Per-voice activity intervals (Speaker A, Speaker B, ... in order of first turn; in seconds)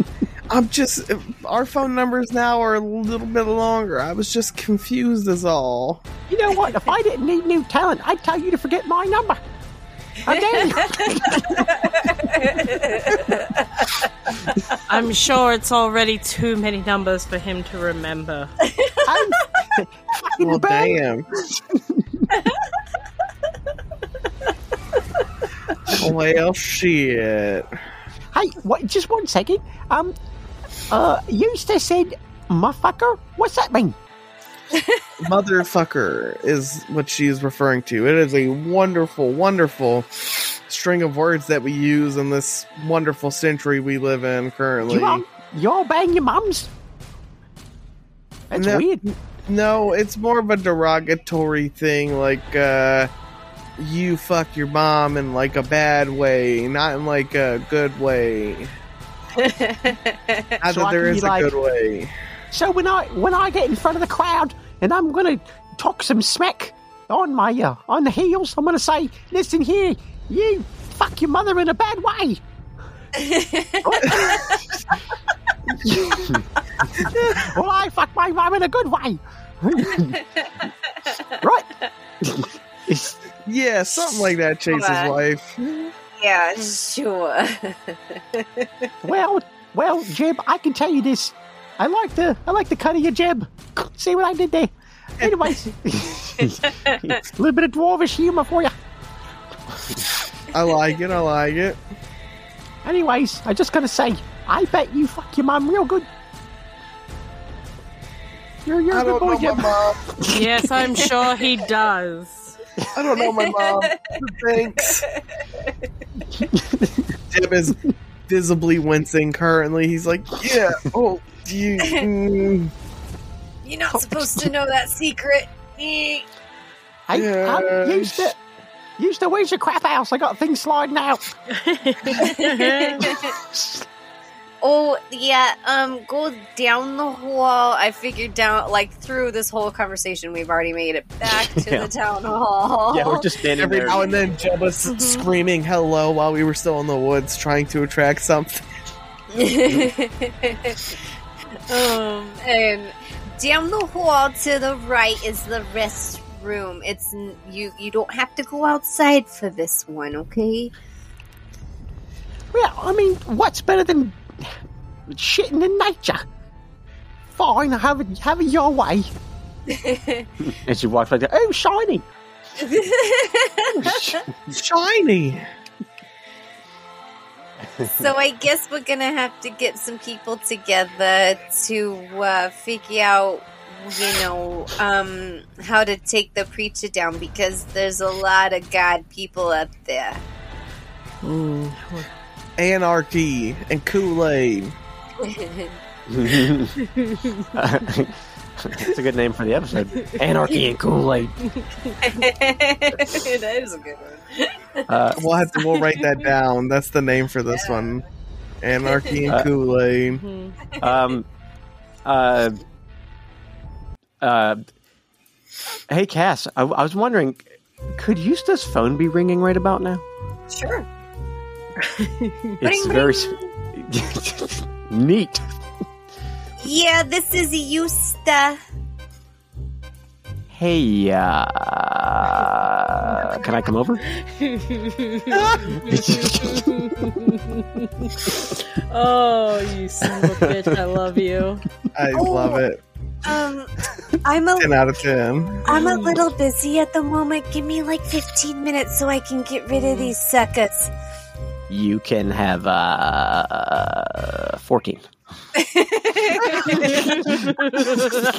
Speaker A: 0.5-6.0, 20.4-21.3, 25.9-27.8, 35.2-45.2, 48.5-53.1, 53.8-58.7, 60.6-62.1, 83.5-85.9, 100.5-101.8, 108.9-110.0, 112.9-115.0, 117.3-122.7, 127.1-128.3, 143.6-148.7, 174.5-175.5, 192.6-194.8, 205.2-208.0, 208.6-210.2, 235.3-235.6, 241.9-242.8, 244.6-245.7
Speaker B: 6.3-9.4, 10.2-11.7, 19.1-22.3, 28.3-30.1, 30.9-34.0, 44.9-46.7, 48.5-49.0, 60.7-61.5, 62.5-72.4, 73.8-74.6, 75.7-76.4, 77.0-80.2, 81.4-81.7, 89.0-96.5, 97.3-98.7, 102.8-106.1, 108.7-110.4, 123.9-124.5, 127.1-128.4, 129.0-131.2, 133.1-133.9, 162.5-166.2, 167.3-169.1, 171.2-172.1
Speaker C: 10.3-13.9, 18.7-19.3, 34.7-35.0, 59.4-60.6, 73.2-74.6, 80.6-81.4, 83.9-85.1, 86.2-88.9, 113.2-114.2, 115.0-115.7, 121.8-122.1, 123.6-126.3, 132.2-133.4, 134.6-143.3, 143.9-144.3, 149.3-151.0, 151.7-160.7, 169.7-170.3, 172.6-174.2, 177.8-190.2, 195.2-195.8, 202.0-204.8, 207.5-208.0, 210.7-211.0, 220.5-220.9, 222.6-223.5, 226.6-228.6, 242.1-242.6, 243.2-244.8, 245.7-250.9, 255.6-257.0
Speaker D: 14.9-18.5, 110.3-112.6, 131.5-133.1, 144.9-145.2, 191.2-192.1, 196.8-197.4, 210.1-210.6, 221.8-222.6, 234.2-241.6, 245.7-246.2, 249.7-250.1, 256.9-258.2
Speaker E: 82.3-83.1, 141.4-141.9, 142.9-144.1, 170.5-171.2, 196.1-196.8, 197.5-201.4, 204.9-205.2, 210.8-211.3, 212.1-212.6, 214.2-214.6, 215.9-220.0, 222.6-225.4, 230.5-234.1, 235.8-237.0, 251.7-255.1